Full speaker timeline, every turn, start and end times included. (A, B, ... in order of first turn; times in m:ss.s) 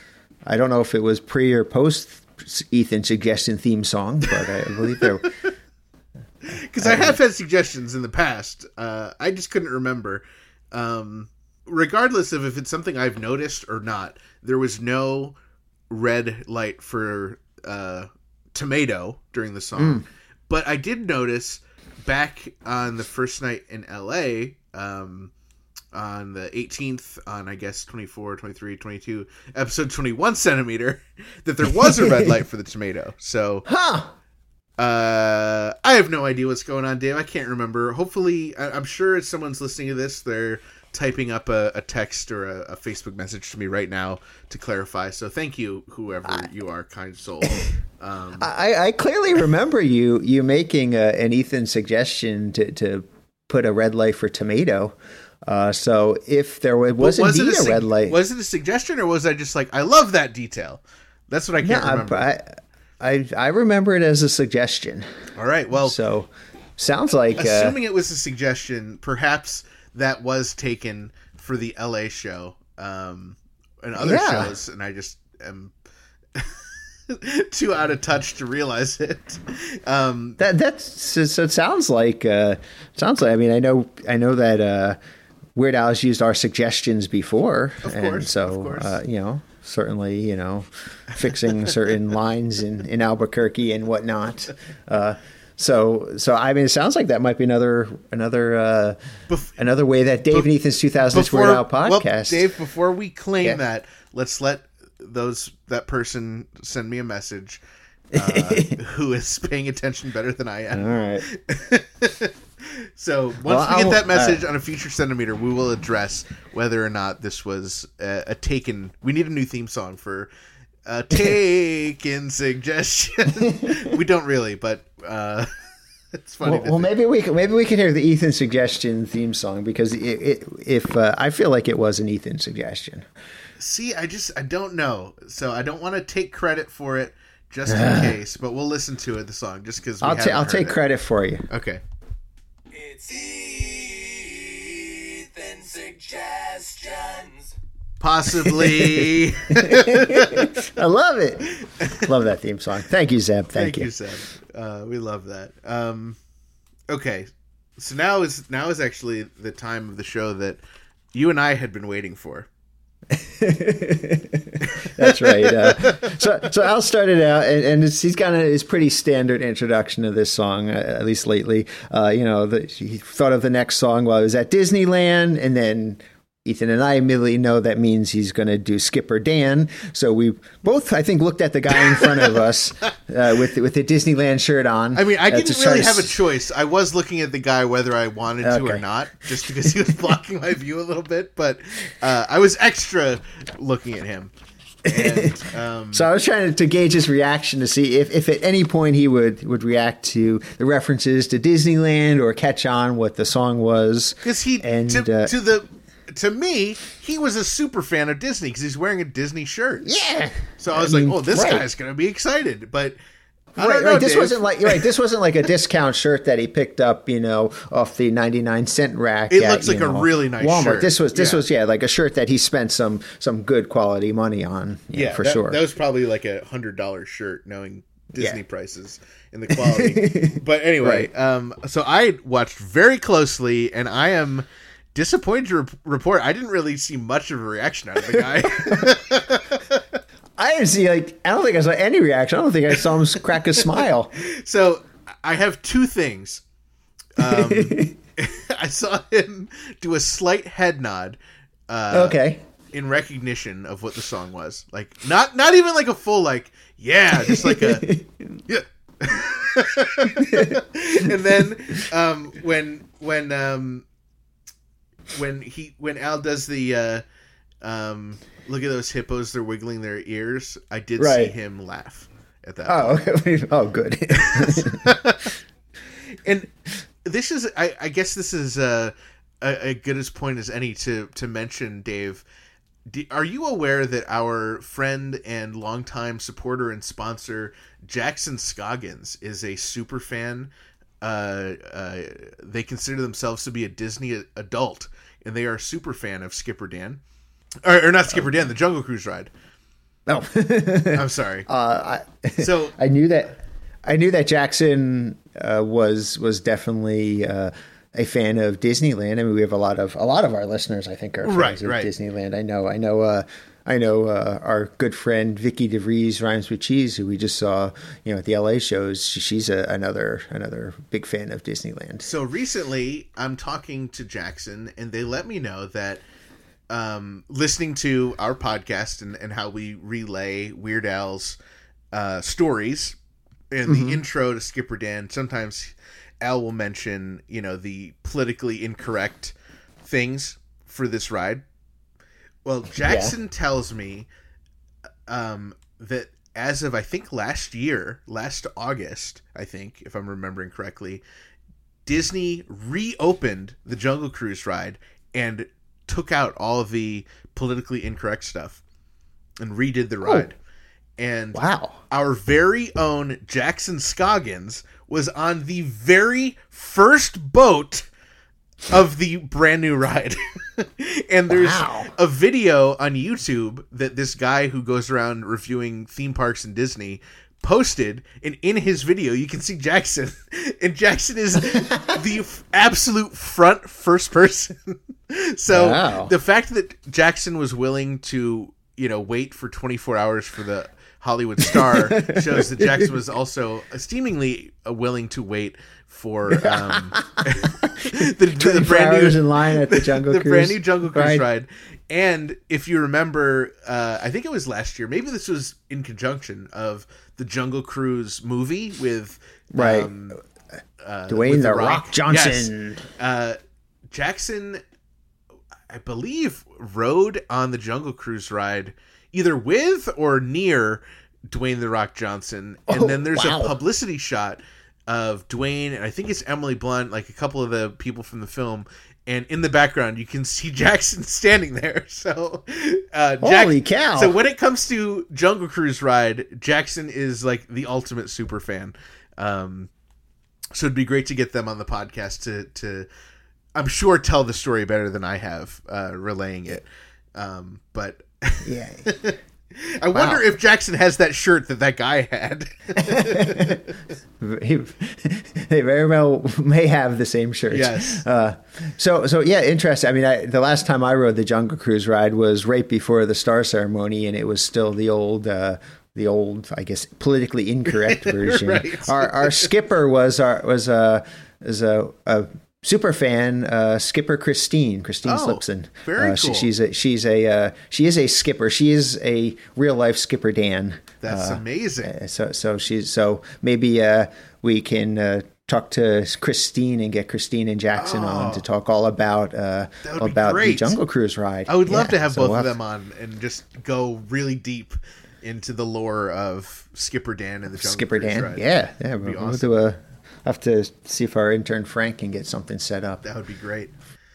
0:00.4-0:05.3 A
0:05.0-0:05.3 B
0:06.4-0:15.4 B
0:06.8-0:07.2 A
0:15.9-0:25.3 B
0:19.8-0:20.0 A
0:25.9-0:33.6 B
0:32.0-0:32.3 A
0:33.7-0:34.1 A
0:34.8-0:48.5 B
0:48.4-0:58.2 A
0:57.0-1:02.3 B
1:01.6-1:05.1 A
1:05.3-1:06.0 B
1:05.8-1:07.8 A
1:07.3-1:15.7 B
1:14.0-1:14.5 A
1:16.3-1:20.4 B
1:20.4-1:25.0 A
1:25.5-1:39.0 A
1:27.8-1:29.0 B
1:39.3-1:39.6 B
1:39.6-1:42.4 A
1:41.1-1:47.6 B
1:48.1-2:00.3 B
1:48.1-1:48.8 A
1:50.7-1:51.2 A
1:53.4-1:54.4 A
2:00.8-2:05.6 B
2:06.1-2:06.9 B
2:06.4-2:13.1 A
2:13.6-2:20.8 B
2:17.7-2:18.2 A
2:20.0-2:21.5 A
2:21.5-2:21.8 B
2:22.7-2:27.5 C
2:28.0-2:30.5 B
2:28.5-2:33.9 A
2:31.5-2:32.1 B
2:33.5-2:36.2 B
2:36.9-2:40.6 B
2:41.1-2:42.5 B
2:43.1-3:06.2 A
2:44.6-2:46.3 B
3:01.7-3:02.4 B
3:04.9-3:14.3 B
3:08.4-3:08.8 A
3:14.8-3:15.4 A
3:14.9-3:16.1 B
3:15.9-3:25.3 A
3:24.2-3:29.9 B
3:29.8-3:31.6 A
3:30.6-3:33.0 B
3:33.6-3:34.9 B
3:33.6-3:45.6 A
3:39.3-3:41.4 B
3:44.9-3:59.8 B
3:49.5-3:51.1 A
3:58.6-3:58.9 A
4:00.4-4:04.1 A
4:03.6-4:06.4 B
4:07.2-4:12.2 B
4:07.2-4:07.9 A
4:11.9-4:12.4 A
4:12.7-4:17.9 B
4:17.2-4:18.1 A
4:18.5-4:23.8 B
4:20.1-4:20.6 A
4:25.1-4:27.0 B
4:27.6-4:33.0 B
4:31.0-4:31.3 A
4:32.6-4:34.9 A
4:34.1-4:35.3 B
4:36.1-4:36.5 B
4:37.0-4:42.2 B
4:42.8-4:57.0 B
4:57.6-4:59.3 B
5:00.1-5:22.1 A
5:00.9-5:01.5 B
5:02.4-5:02.7 B
5:11.2-5:11.9 B
5:22.0-5:26.0 B
5:26.7-5:31.4 B
5:31.9-5:33.0 B
5:33.5-5:41.4 B
5:33.6-5:34.0 A
5:42.4-5:44.1 B
5:42.8-5:43.1 A
5:45.1-5:51.0 B
5:51.8-5:58.6 B
5:59.4-6:00.4 B
6:01.0-6:07.9 B
6:01.3-6:01.8 A
6:08.7-6:50.2 B
6:11.3-6:11.9 A
6:21.6-6:22.0 A
6:25.5-6:26.1 A
6:31.6-6:32.9 A
6:36.3-6:41.2 A
6:49.5-6:49.9 A
6:50.8-6:53.4 B
6:51.1-6:52.8 A
6:53.9-6:54.6 B
6:55.7-7:19.7 B
7:02.7-7:03.5 A
7:13.2-7:14.2 A
7:20.5-7:22.9 B
7:23.5-7:33.6 B
7:28.4-7:28.8 A
7:29.9-7:30.3 A
7:32.8-7:33.6 A
7:34.2-8:12.5 A
7:37.5-7:38.0 B
7:47.7-7:49.5 B
7:55.0-7:56.5 B
8:01.0-8:01.9 B
8:07.8-8:08.4 B
8:09.8-8:10.8 B
8:11.5-8:18.4 B
8:17.6-8:23.0 A
8:19.0-8:19.5 B
8:23.0-8:23.7 B